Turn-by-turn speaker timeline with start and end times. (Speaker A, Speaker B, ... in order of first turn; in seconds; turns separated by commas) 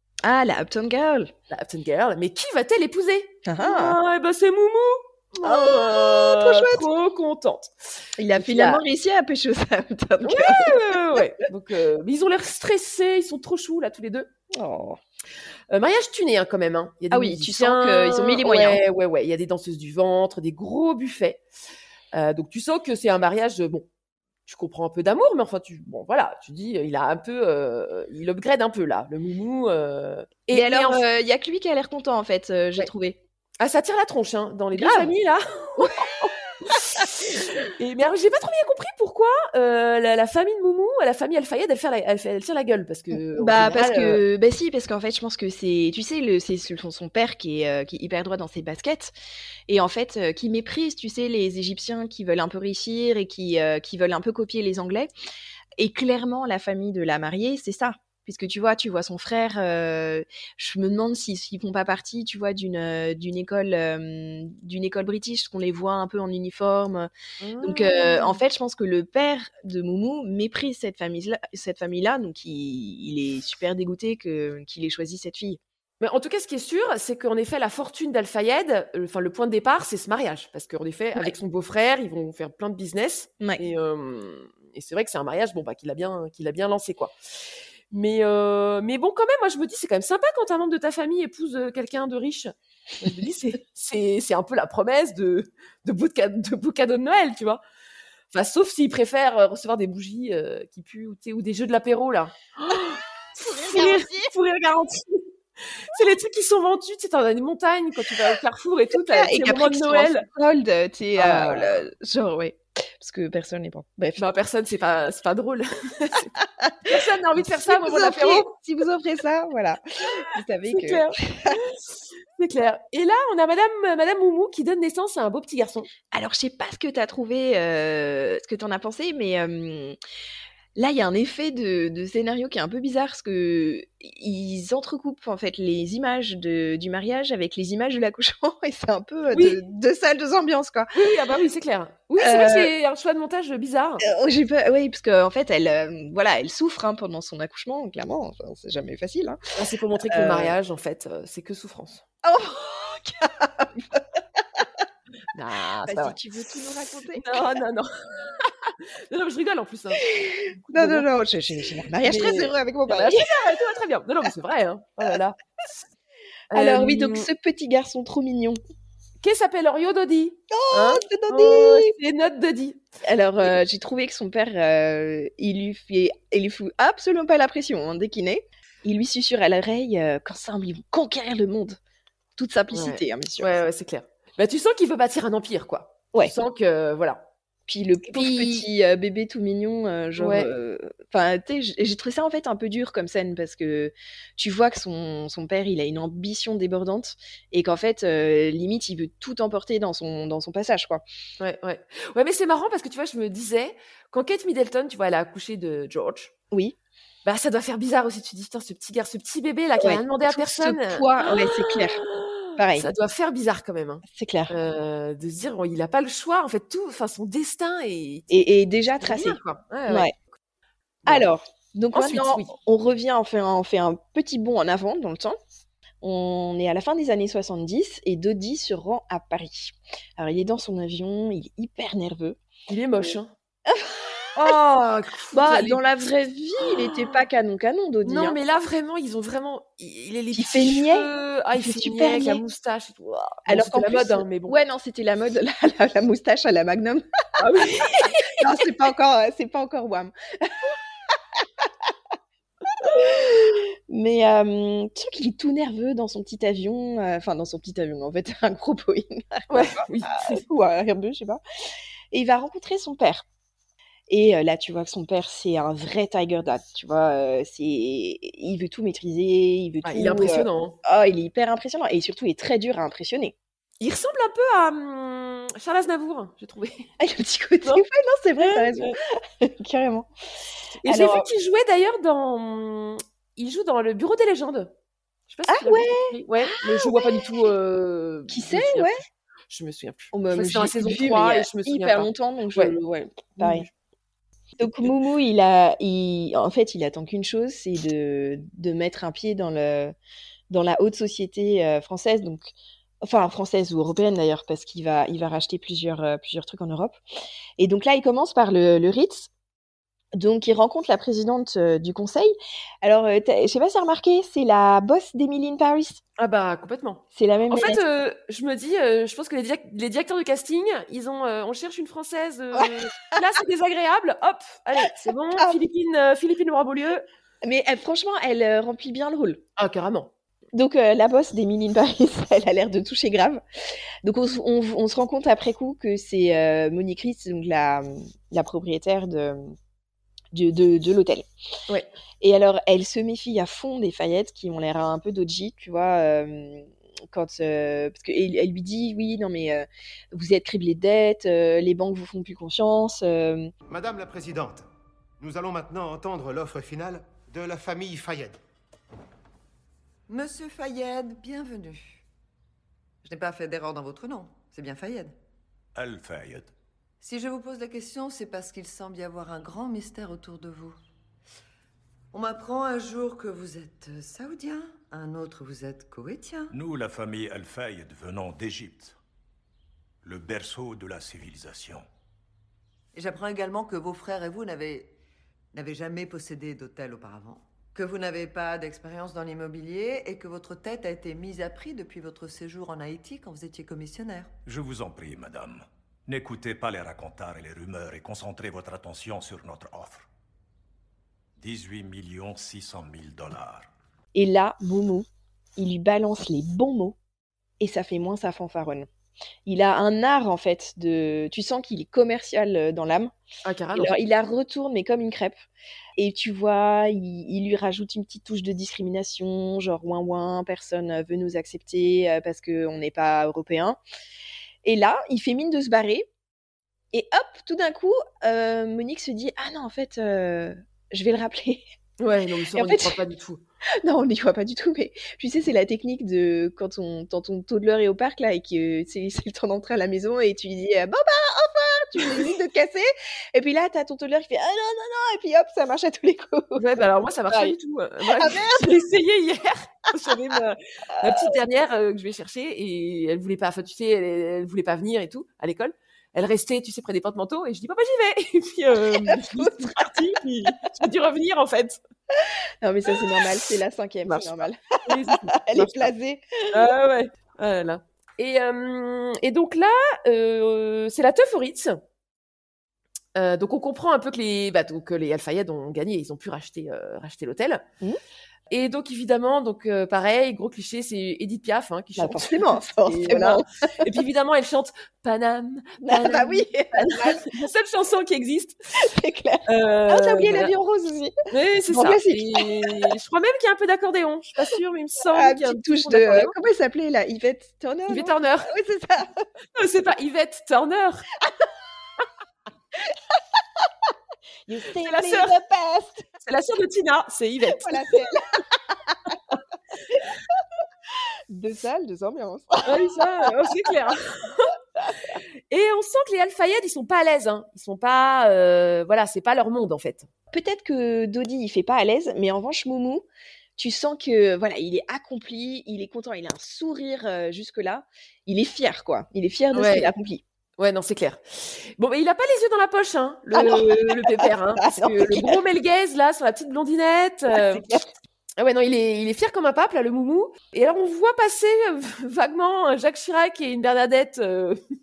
Speaker A: 0.2-1.3, Speaker B: 1.5-7.7, Speaker A: 3.4-4.0, Speaker A: 5.4-6.9, Speaker A: 8.2-11.2, Speaker B: 8.3-8.8, Speaker B: 10.2-14.3, Speaker A: 14.5-15.0, Speaker B: 15.7-21.4, Speaker A: 17.1-18.8, Speaker B: 22.1-23.9, Speaker B: 24.4-31.0, Speaker A: 30.5-33.2, Speaker B: 33.6-44.2, Speaker A: 34.7-35.1, Speaker A: 35.8-36.3, Speaker A: 43.1-49.1, Speaker A: 49.7-55.1, Speaker A: 55.8-67.1, Speaker B: 67.4-68.4, Speaker A: 67.6-75.6, Speaker B: 76.0-87.1, Speaker B: 87.9-97.6, Speaker B: 98.3-110.3, Speaker A: 102.7-104.3, Speaker A: 109.0-114.2, Speaker B: 111.2-111.8, Speaker B: 114.2-116.3, Speaker A: 116.4-121.6, Speaker B: 116.8-118.5, Speaker B: 120.0-125.9, Speaker A: 126.1-129.9, Speaker A: 130.7-140.9, Speaker B: 139.3-139.6, Speaker B: 140.9-144.0, Speaker A: 142.2-142.7, Speaker A: 144.0-149.4, Speaker B: 149.6-152.0, Speaker A: 150.1-150.5, Speaker A: 152.2-154.7, Speaker B: 155.3-156.2, Speaker A: 155.8-157.6, Speaker B: 157.1-161.1, Speaker A: 160.1-163.6, Speaker B: 162.0-165.4, Speaker B: 166.5-167.3, Speaker A: 166.5-168.6, Speaker B: 169.2-172.8, Speaker A: 170.5-171.9, Speaker A: 173.0-181.8, Speaker A: 182.3-183.5, Speaker B: 182.7-187.2, Speaker A: 187.7-201.0, Speaker B: 188.0-188.7, Speaker B: 190.2-190.5, Speaker B: 201.4-206.3, Speaker A: 206.5-206.8, Speaker B: 207.2-220.2, Speaker A: 209.8-212.0, Speaker A: 212.5-212.9, Speaker A: 214.0-214.5, Speaker A: 218.3-220.1, Speaker A: 221.1-225.4, Speaker B: 221.9-222.5, Speaker A: 226.0-232.4, Speaker B: 232.7-233.3, Speaker A: 233.7-234.6, Speaker B: 234.3-235.8, Speaker A: 235.3-238.4, Speaker B: 236.7-237.1, Speaker B: 238.0-244.5, Speaker A: 240.3-242.4, Speaker A: 243.5-247.4, Speaker B: 247.4-248.6, Speaker A: 248.3-250.7, Speaker A: 251.6-251.9, Speaker A: 252.8-261.4, Speaker B: 259.5-260.4, Speaker A: 262.1-263.2, Speaker A: 264.1-273.3, Speaker B: 269.8-270.8, Speaker B: 273.8-276.9, Speaker A: 277.0-280.1, Speaker B: 278.4-278.9, Speaker B: 280.8-284.7, Speaker A: 280.8-281.3, Speaker B: 285.3-288.9, Speaker A: 285.5-287.5, Speaker A: 288.3-289.0, Speaker B: 289.5-292.8, Speaker A: 290.1-293.7, Speaker B: 293.3-293.7, Speaker A: 294.6-299.9, Speaker B: 294.6-294.9, Speaker A: 300.5-307.0, Speaker A: 307.6-309.3, Speaker A: 310.1-316.0, Speaker B: 316.2-327.0, Speaker A: 317.1-317.8, Speaker A: 327.4-329.4, Speaker B: 329.6-330.1, Speaker A: 330.5-333.4, Speaker A: 334.0-339.5, Speaker A: 340.3-341.3, Speaker A: 342.2-353.5, Speaker C: 353.7-354.7, Speaker C: 355.2-358.4, Speaker D: 360.1-362.0, Speaker D: 363.0-365.1, Speaker E: 365.7-366.5, Speaker D: 367.0-370.8, Speaker D: 372.1-376.5, Speaker E: 376.5-378.9, Speaker E: 380.0-381.9, Speaker D: 382.9-384.9, Speaker D: 385.5-394.3, Speaker E: 394.4-400.1, Speaker E: 401.4-403.7, Speaker A: 404.1-407.0, Speaker A: 407.6-408.9, Speaker A: 409.4-413.1, Speaker B: 413.4-413.9, Speaker A: 413.7-415.4, Speaker A: 415.9-423.8, Speaker A: 424.6-426.1, Speaker A: 426.9-431.6, Speaker B: 432.0-433.4, Speaker A: 432.5-433.0, Speaker A: 433.8-447.5, Speaker B: 446.6-461.8, Speaker A: 448.1-448.8, Speaker A: 458.9-460.2, Speaker A: 462.2-466.4, Speaker B: 464.1-465.9, Speaker B: 466.5-471.8, Speaker B: 473.1-477.6, Speaker B: 478.5-488.6, Speaker A: 482.0-483.7, Speaker A: 485.8-487.3, Speaker A: 488.8-491.1, Speaker B: 489.5-490.5, Speaker B: 491.3-496.3, Speaker A: 491.7-492.9, Speaker A: 495.1-499.2, Speaker B: 497.9-498.5, Speaker B: 499.6-501.1, Speaker A: 504.4-506.1, Speaker B: 504.8-505.3, Speaker B: 506.2-508.1, Speaker A: 507.5-509.1, Speaker A: 511.3-513.7, Speaker B: 512.6-514.5, Speaker B: 515.5-520.1, Speaker A: 520.3-530.2, Speaker B: 529.5-529.9, Speaker B: 530.6-537.6, Speaker A: 533.3-535.4, Speaker A: 537.3-537.9, Speaker B: 538.4-544.6